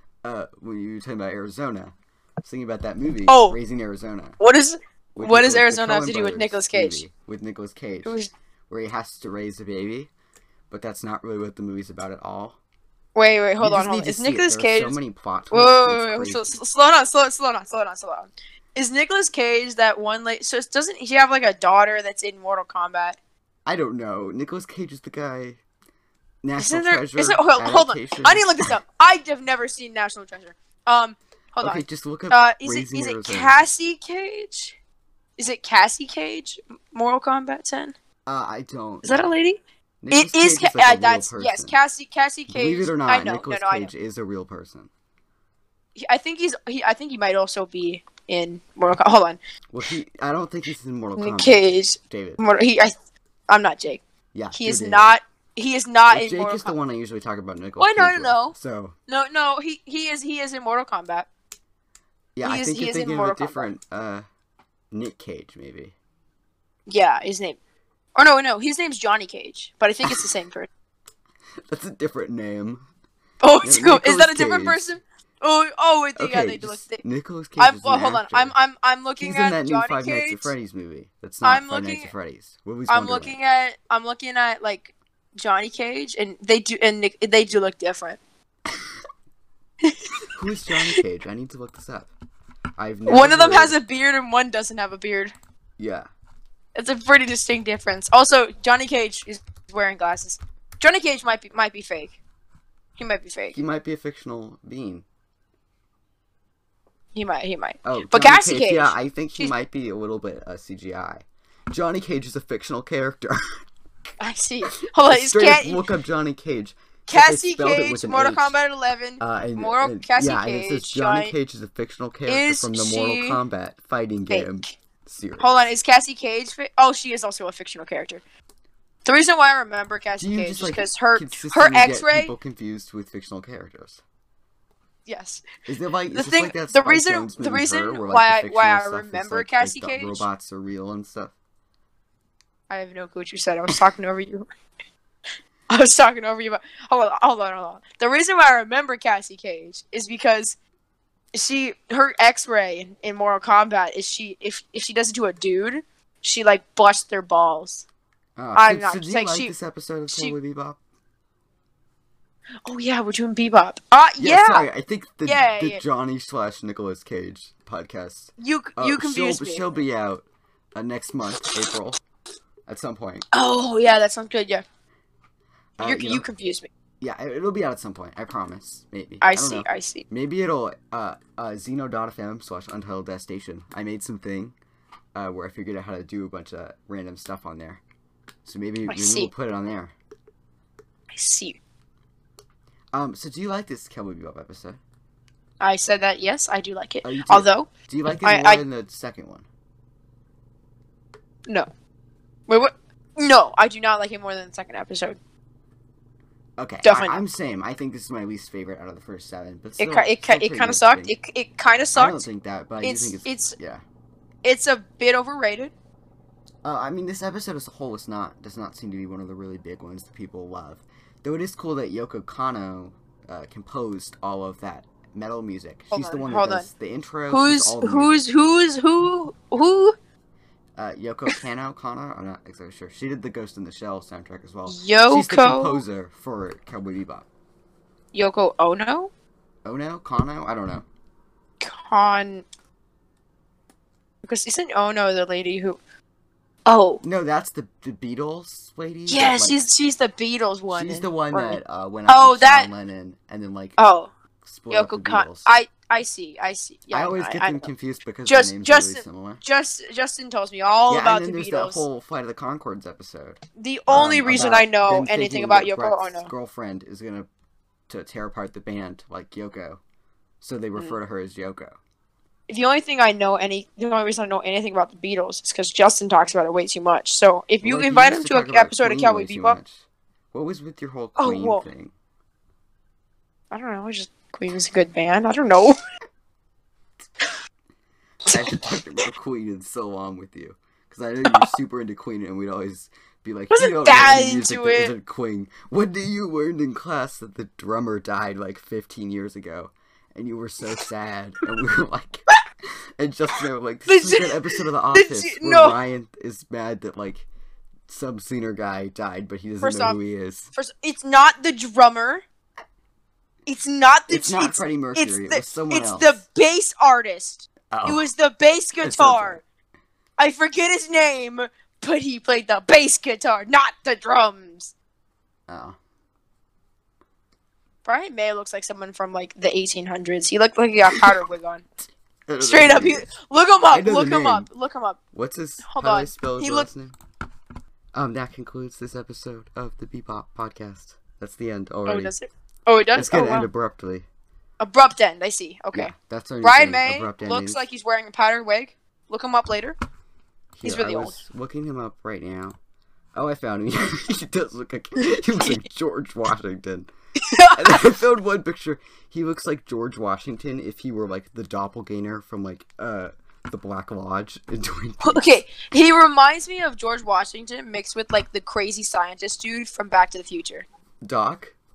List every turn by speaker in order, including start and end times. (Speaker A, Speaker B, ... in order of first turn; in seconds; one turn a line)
Speaker A: 0.2-4.4
Speaker B: 3.3-3.6
Speaker B: 4.4-7.0
Speaker A: 5.2-8.2
Speaker B: 8.0-8.3
Speaker A: 8.7-10.1
Speaker A: 10.7-12.6
Speaker B: 13.1-15.0
Speaker A: 13.6-16.6
Speaker B: 15.5-23.2
Speaker A: 23.6-25.6
Speaker A: 26.4-28.8
Speaker B: 26.6-34.8
Speaker A: 31.6-33.6
Speaker B: 35.4-37.9
Speaker A: 38.3-39.3
Speaker B: 39.0-39.6
Speaker A: 40.0-41.8
Speaker B: 40.1-43.9
Speaker A: 42.5-44.9
Speaker B: 46.0-49.4
Speaker A: 49.7-52.4
Speaker B: 51.2-52.9
Speaker B: 53.5-56.7
Speaker A: 54.3-55.1
Speaker A: 56.1-59.0
Speaker B: 57.8-58.5
Speaker B: 59.1-61.3
Speaker A: 62.4-64.2
Speaker B: 62.4-63.7
Speaker A: 64.9-65.9
Speaker B: 66.9-67.6
Speaker B: 68.2-70.7
Speaker A: 71.7-72.8
Speaker B: 73.4-77.0
Speaker A: 73.6-74.8
Speaker A: 76.2-78.5
Speaker B: 77.6-80.5
Speaker A: 79.2-83.4
Speaker B: 81.4-82.1
Speaker B: 82.9-88.2
Speaker A: 90.3-92.1
Speaker A: 92.8-93.7
Speaker B: 93.1-95.3
Speaker A: 95.8-96.1
Speaker B: 96.7-102.2
Speaker B: 103.0-103.5
Speaker A: 103.5-105.0
Speaker B: 107.1-109.5
Speaker A: 107.8-113.6
Speaker B: 114.2-115.8
Speaker A: 114.7-118.5
Speaker B: 117.1-121.3
Speaker A: 119.2-125.5
Speaker B: 122.3-123.4
Speaker B: 124.3-124.6
Speaker B: 125.4-128.2
Speaker B: 129.1-132.3
Speaker A: 130.2-134.0
Speaker B: 135.1-135.5
Speaker A: 135.7-141.3
Speaker B: 136.1-140.3
Speaker B: 142.7-144.5
Speaker B: 145.7-150.6
Speaker B: 151.3-157.8
Speaker A: 158.4-160.8
Speaker B: 158.5-159.5
Speaker B: 160.1-160.3
Speaker B: 162.6-164.7
Speaker A: 164.2-170.2
Speaker B: 165.2-165.8
Speaker B: 168.4-169.8
Speaker A: 170.8-172.0
Speaker A: 172.7-173.2
Speaker B: 173.3-174.6
Speaker A: 175.8-176.2
Speaker B: 175.8-176.7
Speaker A: 177.0-184.5
Speaker B: 179.2-180.0
Speaker A: 185.2-187.8
Speaker A: 188.4-189.9
Speaker B: 188.9-189.3
Speaker B: 191.1-191.6
Speaker A: 192.9-194.8
Speaker B: 195.6-197.7
Speaker A: 197.0-199.4
Speaker B: 198.2-198.6
Speaker B: 202.5-205.2
Speaker A: 206.6-211.1
Speaker B: 206.8-207.2
Speaker B: 209.8-212.2
Speaker A: 211.9-213.8
Speaker B: 212.8-213.6
Speaker B: 214.4-215.7
Speaker A: 216.6-228.2
Speaker B: 225.9-226.7
Speaker B: 227.3-229.9
Speaker A: 230.8-237.3
Speaker B: 234.7-235.8
Speaker B: 238.1-239.1
Speaker A: 239.6-240.8
Speaker B: 241.6-242.4
Speaker B: 244.2-245.8
Speaker B: 246.7-247.0
Speaker A: 247.0-249.6
Speaker B: 249.1-252.7
Speaker A: 250.7-253.8
Speaker B: 253.8-254.1
Speaker A: 254.4-255.5
Speaker B: 254.7-257.7
Speaker A: 256.9-259.4
Speaker B: 258.2-261.8
Speaker A: 260.9-267.3
Speaker B: 263.6-266.3
Speaker A: 267.9-269.8
Speaker A: 270.4-271.8
Speaker B: 272.5-279.6
Speaker A: 277.6-281.9
Speaker B: 281.2-281.6
Speaker B: 283.5-285.8
Speaker A: 288.2-302.3
Speaker B: 288.3-288.6
Speaker B: 293.5-294.9
Speaker A: 303.0-307.3
Speaker B: 303.9-304.4
Speaker B: 304.9-305.8
Speaker A: 307.9-310.5
Speaker B: 309.6-310.0
Speaker B: 310.5-312.2
Speaker B: 313.4-319.4
Speaker A: 314.1-316.2
Speaker A: 317.7-318.1
Speaker A: 318.8-319.4
Speaker B: 320.2-324.7
Speaker A: 325.5-325.8
Speaker B: 327.8-331.6
Speaker A: 332.3-333.0
Speaker B: 332.4-335.0
Speaker A: 333.7-334.5
Speaker A: 335.1-336.9
Speaker B: 335.6-336.7
Speaker A: 337.9-342.1
Speaker B: 341.9-343.5
Speaker A: 342.9-344.1
Speaker B: 344.6-349.8
Speaker A: 345.7-347.6
Speaker A: 350.6-352.6
Speaker B: 350.6-351.2
Speaker A: 353.1-356.9
Speaker B: 355.0-355.6
Speaker B: 357.2-357.9
Speaker A: 357.5-365.3
Speaker B: 365.0-370.6
Speaker A: 371.0-371.5